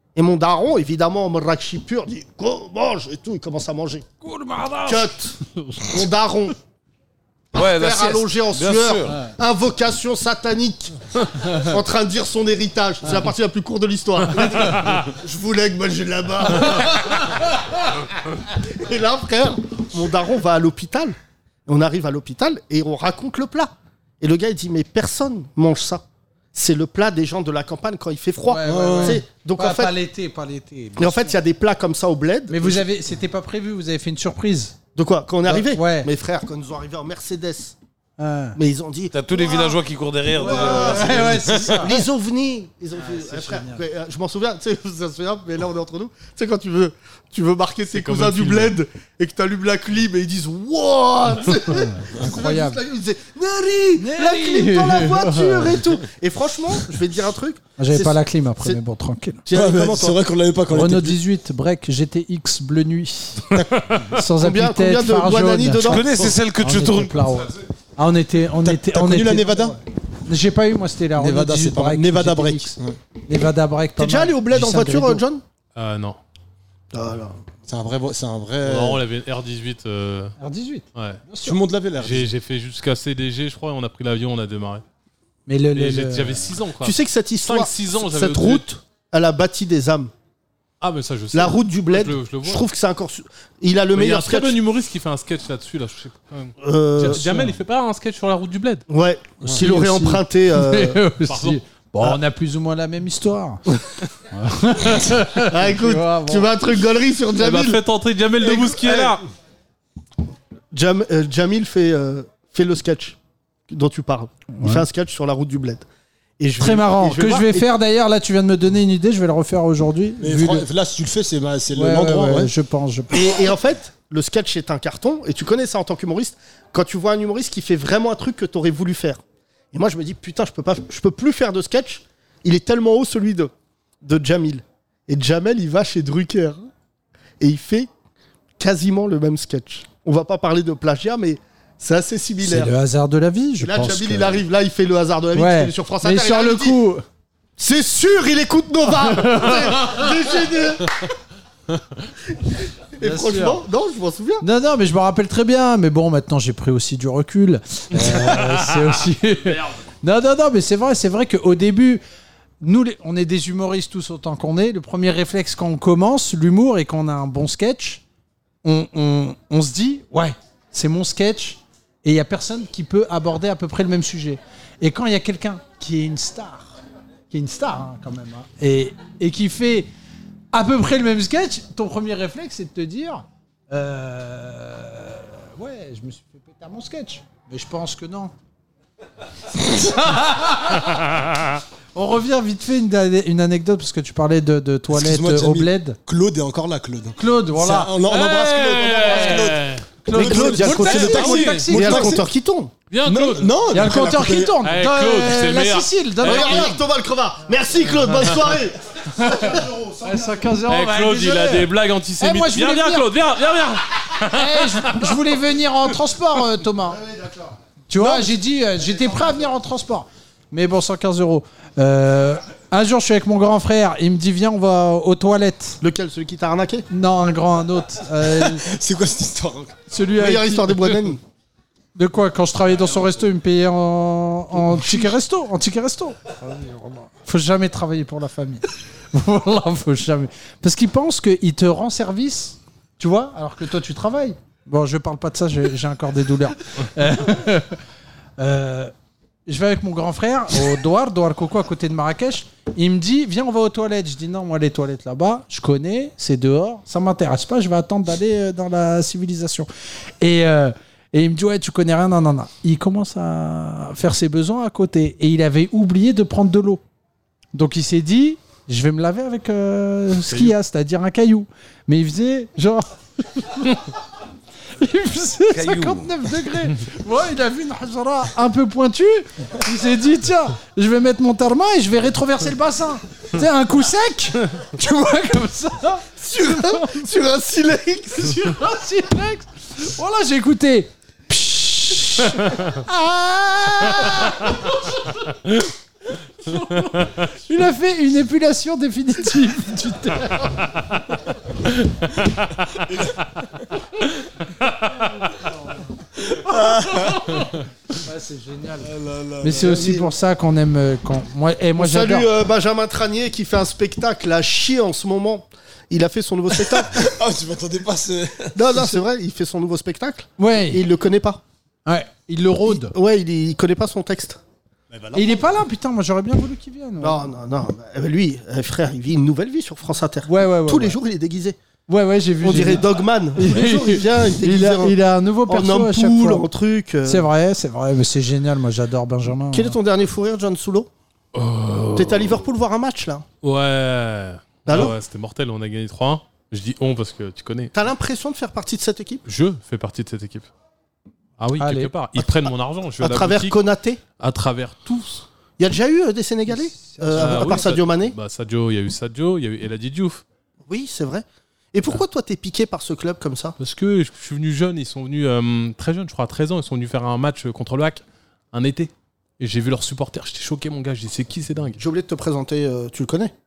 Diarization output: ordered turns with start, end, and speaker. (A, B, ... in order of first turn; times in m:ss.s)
0:00.2-0:04.0 A
0:04.2-0:05.0 B
0:04.8-0:05.3 A
0:05.9-0:06.5 A
0:07.5-0:17.2 A
0:07.5-0:09.2 C
0:18.6-0:30.0 A
0:28.5-0:31.4 B
0:28.6-0:29.2 D
0:31.0-0:32.9 A
0:32.5-0:34.8 B
0:34.9-0:37.8 A
0:35.4-0:36.1 B
0:38.2-0:38.6 B
0:38.6-0:39.8 A
0:39.1-0:41.9 C
0:40.3-0:42.0 B
0:40.4-0:58.8 A
0:43.0-0:43.8 B
0:47.9-0:48.8 E
0:52.2-0:52.8 B
0:54.0-0:55.8 B
0:57.8-0:59.4 B
0:59.4-1:00.2 A
0:59.5-1:01.2 D
1:00.7-1:03.4 B
1:03.5-1:03.8 D
1:04.1-1:12.8 B
1:04.4-1:06.0 A
1:05.8-1:07.5 C
1:08.6-1:09.8 D
1:11.2-1:13.0 D
1:13.3-1:15.2 B
1:14.0-1:15.4 A
1:15.7-1:16.2 E
1:16.9-1:17.4 A
1:17.6-1:19.0 D
1:18.6-1:20.3 E
1:20.4-1:21.6 B
1:21.4-1:22.3 D
1:22.0-1:24.8 E
1:25.5-1:26.5 B
1:25.7-1:28.7 E
1:26.8-1:30.1 A
1:30.8-1:32.7 E
1:31.3-1:34.6 A
1:33.9-1:38.8 E
1:36.6-1:37.5 A
1:38.9-1:41.0 A
1:39.4-1:43.6 B
1:41.3-1:41.6 E
1:44.4-1:46.5 B
1:45.5-1:47.8 A
1:47.4-1:49.2 E
1:48.4-1:49.2 A
1:50.7-1:53.2 A
1:53.7-1:55.8 A
1:54.6-1:54.8 B
1:56.4-1:57.7 A
1:56.6-2:00.6 B
2:00.2-2:02.5 D
2:01.7-2:03.2 B
2:03.1-2:09.2 A
2:09.7-2:13.5 A
2:14.0-2:16.7 A
2:17.4-2:17.9 A
2:18.6-2:22.7 A
2:22.4-2:24.4 B
2:23.6-2:26.8 A
2:25.3-2:27.0 B
2:27.6-2:30.9 A
2:28.9-2:30.1 B
2:33.0-2:34.4 A
2:33.0-2:33.6 B
2:34.4-2:42.0 B
2:42.6-2:48.0 B
2:48.6-2:56.7 B
2:57.3-2:59.9 B
3:00.5-3:08.3 B
3:09.8-3:11.0 B
3:11.9-3:16.0 B
3:14.9-3:22.3 D
3:17.2-3:18.0 B
3:18.0-3:19.8 E
3:20.0-3:22.2 B
3:20.1-3:22.7 A
3:21.4-3:21.6 E
3:22.9-3:23.6 E
3:23.0-3:24.6 D
3:23.7-3:26.8 B
3:24.6-3:26.7 E
3:26.2-3:28.8 A
3:29.2-3:33.1 B
3:29.3-3:29.6 A
3:30.7-3:35.1 E
3:34.3-3:37.0 B
3:37.9-3:45.8 B
3:45.8-3:46.8 A
3:46.9-3:48.6 B
3:48.3-3:49.8 D
3:49.9-3:51.0 B
3:50.2-3:51.2 A
3:51.9-4:07.8 B
3:54.7-3:55.0 A
4:08.4-4:08.9 B
4:09.5-4:19.7 B
4:20.2-4:26.8 B
4:27.5-4:33.8 B
4:34.8-4:47.0 B
4:35.5-4:36.1 C
4:46.2-4:48.4 A
4:48.2-4:54.4 B
4:56.4-5:00.4 B
4:57.0-4:57.3 E
5:01.8-5:02.5 E
5:06.3-5:07.2 D
5:06.5-5:08.9 B
5:08.8-5:10.0 D
5:09.4-5:12.3 B
5:09.6-5:10.1 A
5:11.8-5:17.0 A
5:16.7-5:18.6 D
5:18.5-5:21.4 A
5:20.4-5:20.8 B
5:21.8-5:22.9 B
5:22.6-5:24.4 A
5:24.9-5:25.3 D
5:25.1-5:27.2 B
5:27.0-5:31.6 A
5:30.2-5:31.0 B
5:31.9-5:36.5 B
5:32.4-5:37.3 A
5:37.0-5:39.8 B
5:39.5-5:40.9 A
5:41.3-5:42.4 E
5:41.9-5:43.2 A
5:43.4-5:47.7 E
5:44.6-5:45.0 A
5:47.7-5:49.2 A
5:49.2-5:50.5 E
5:51.4-5:53.6 E
5:51.6-5:51.9 B
5:52.2-5:54.0 A
5:54.2-5:55.3 E
5:55.6-5:58.2 A
5:56.5-5:57.7 B
5:57.2-6:00.2 E
6:00.7-6:03.6 A
6:03.6-6:11.8 E
6:11.8-6:13.3 A